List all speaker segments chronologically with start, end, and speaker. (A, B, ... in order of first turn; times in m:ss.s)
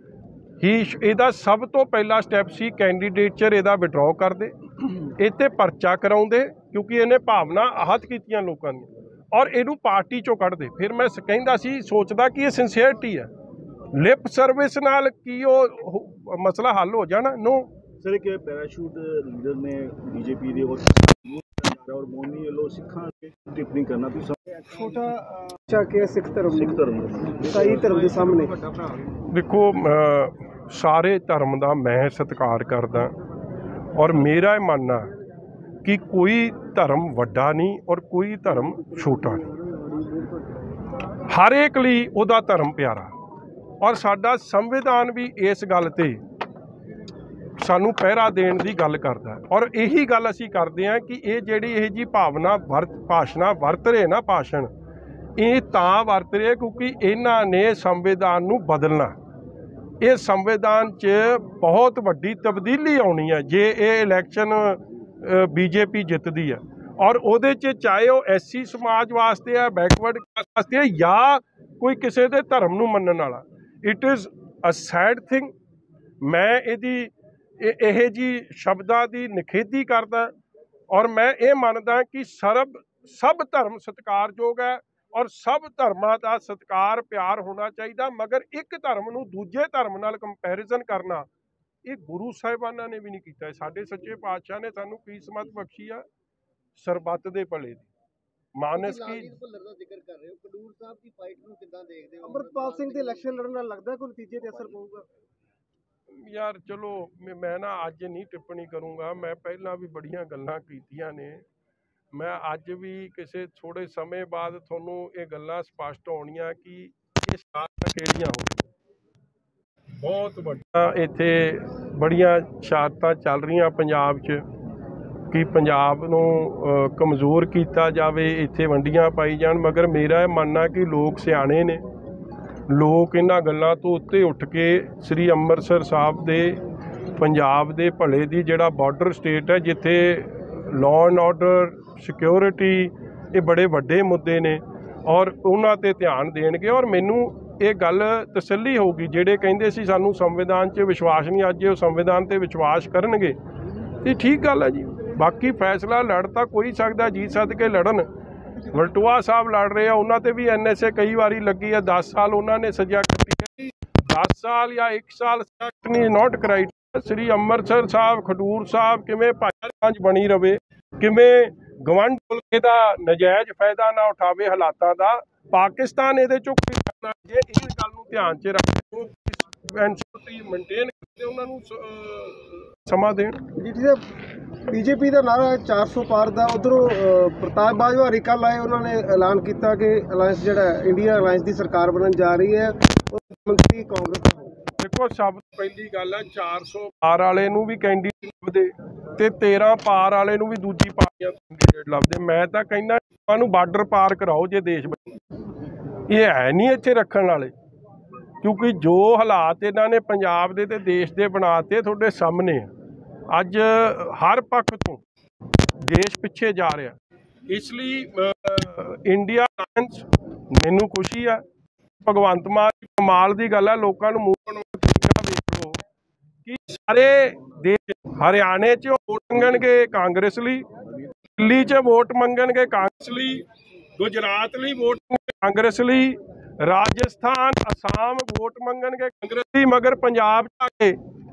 0:00.6-0:13.3 A
0:13.9-0:17.7 A
0:18.0-0:24.7 B
0:24.6-0:26.8 C
0:26.5-0:29.0 B
0:27.4-0:28.6 C
0:29.3-0:33.1 A
0:34.0-0:35.1 A
0:35.8-0:39.5 A
0:38.8-0:40.3 C
0:41.3-0:43.1 A
0:43.8-0:46.2 A
0:47.6-0:54.7 A
0:55.4-0:59.2 A
1:00.0-1:15.5 A
1:16.2-1:20.3 A
1:20.9-1:31.3 A
1:31.8-1:36.0 A
1:36.8-1:37.9 A
1:38.6-1:39.4 A
1:38.8-1:43.4 D
1:42.2-1:45.0 C
1:46.1-1:51.4 A
1:52.1-1:58.6 A
2:00.0-2:04.4 A
2:05.3-2:11.8 A
2:12.7-2:16.6 A
2:17.2-2:33.4 A
2:34.0-2:38.1 A
2:38.7-3:03.4 A
3:03.6-3:04.0 C
3:04.7-3:14.6 C
3:14.8-3:25.1 A
3:26.1-3:27.5 A
3:28.4-3:32.7 A
3:33.3-3:35.0 A
3:35.8-3:37.0 A
3:37.5-3:41.4 A
3:42.0-3:45.8 A
3:46.4-3:50.7 A
3:51.3-3:53.4 A
3:54.0-4:01.0 A